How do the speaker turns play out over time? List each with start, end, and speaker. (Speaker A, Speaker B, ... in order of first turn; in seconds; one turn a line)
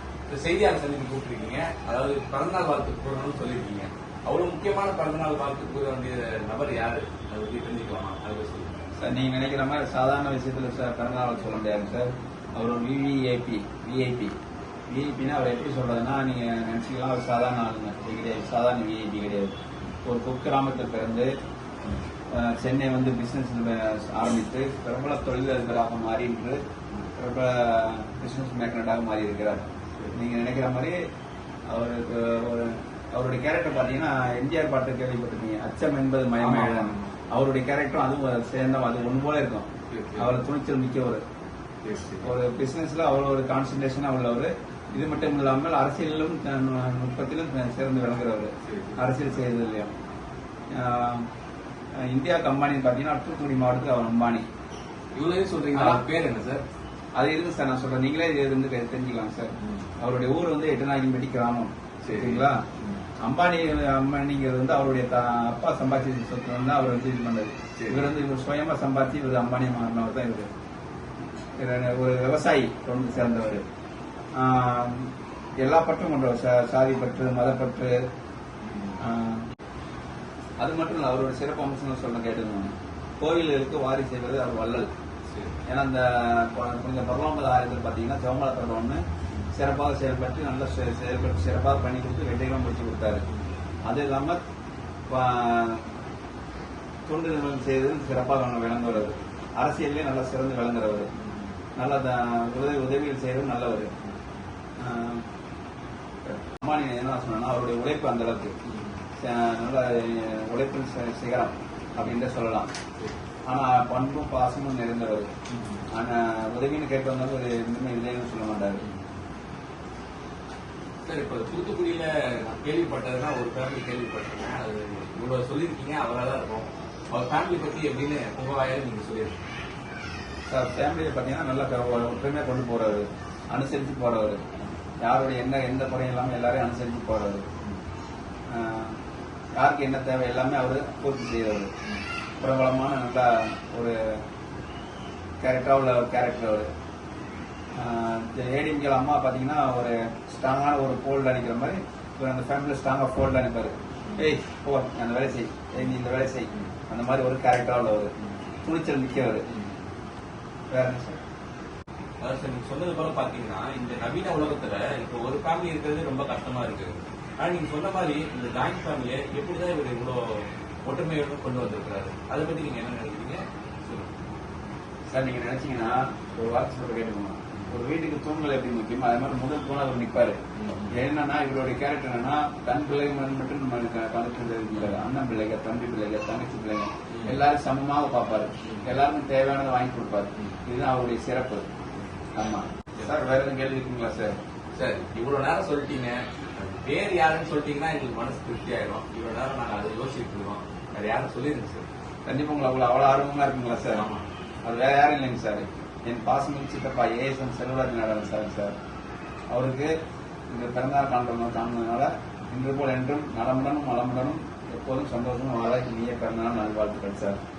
Speaker A: 0.3-8.8
Speaker B: 9.0-14.3
Speaker B: 14.9-21.3
Speaker B: 22.3-26.6
Speaker B: 27.1-31.0
Speaker B: 31.7-41.2
Speaker A: 36.4-37.1
Speaker A: 39.9-40.3
Speaker A: 41.8-42.3
Speaker B: 42.2-49.9
Speaker A: 48.6-49.0
Speaker B: 50.7-51.3
Speaker B: 52.0-54.5
Speaker A: 55.1-56.6
Speaker B: 55.7-56.0
Speaker B: 57.1-62.6
Speaker A: 62.0-63.0
Speaker B: 63.2-70.5
Speaker A: 67.8-68.1
Speaker B: 71.6-73.7
Speaker B: 74.3-78.0
Speaker A: 78.7-79.0
Speaker B: 79.0-79.4
Speaker B: 80.6-84.9
Speaker B: 85.7-93.2
Speaker B: 93.8-94.4
Speaker B: 95.1-95.8
Speaker B: 97.1-101.1
Speaker A: 101.2-101.5
Speaker B: 101.8-103.9
Speaker B: 104.8-105.2
Speaker B: 106.2-108.5
Speaker A: 108.7-109.0
Speaker B: 109.2-112.7
Speaker B: 113.5-115.3
Speaker A: 115.5-115.8
Speaker B: 115.9-118.8
Speaker A: 121.0-129.4
Speaker B: 130.5-134.4
Speaker B: 135.0-137.5
Speaker B: 138.5-139.0
Speaker B: 139.6-141.7
Speaker B: 142.4-144.0
Speaker B: 145.4-146.7
Speaker B: 147.8-159.5
Speaker A: 159.5-159.8
Speaker B: 160.7-161.2
Speaker A: 162.2-174.1
Speaker B: 175.1-191.7
Speaker A: 180.6-180.9
Speaker A: 187.1-187.4
Speaker A: 188.7-188.9
Speaker B: 192.3-194.4
Speaker A: 194.8-201.8
Speaker B: 202.3-204.1
Speaker A: 203.9-204.2
Speaker B: 204.6-208.8
Speaker B: 209.5-209.9
Speaker B: 210.5-217.4